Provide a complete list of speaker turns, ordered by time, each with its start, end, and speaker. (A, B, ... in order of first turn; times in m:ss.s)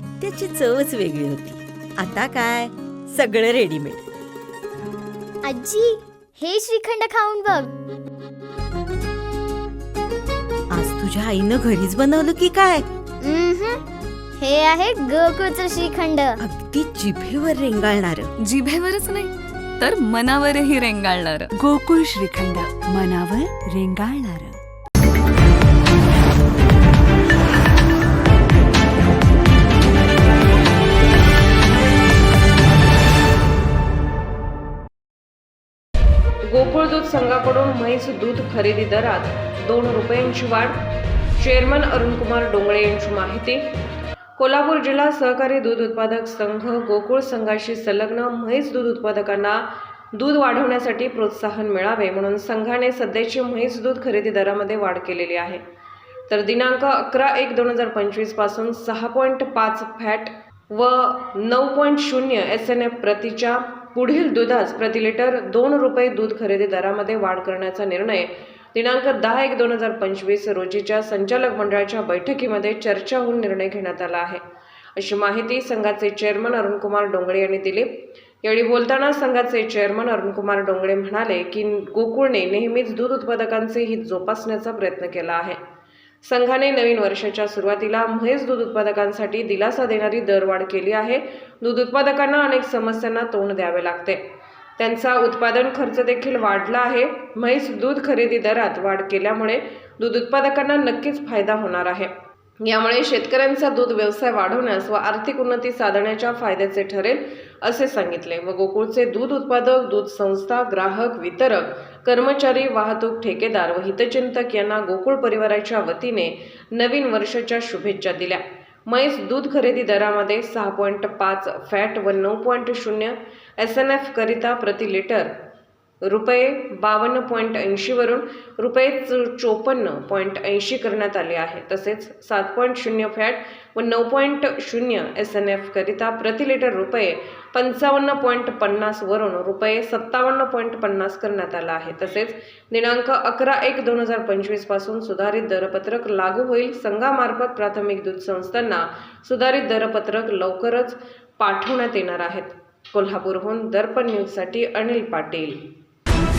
0:00.2-0:04.0 A
0:05.4-0:07.7 B
0:10.7-0:12.8 A
0:13.2-0:13.8 B
0:14.4-0:16.4 B
0:16.4-0:18.3 A
0:18.4-0:21.5 C
0:21.6-0:24.5 D
0:23.9-0:24.2 C
0:36.4-0:40.8 E
0:41.4-0:43.7 E
0:44.4-0:55.6 E
0:56.3-1:14.4 E
1:15.0-1:25.6 E
1:26.2-1:34.2 E
1:34.8-2:05.4 E
2:06.0-2:35.6 E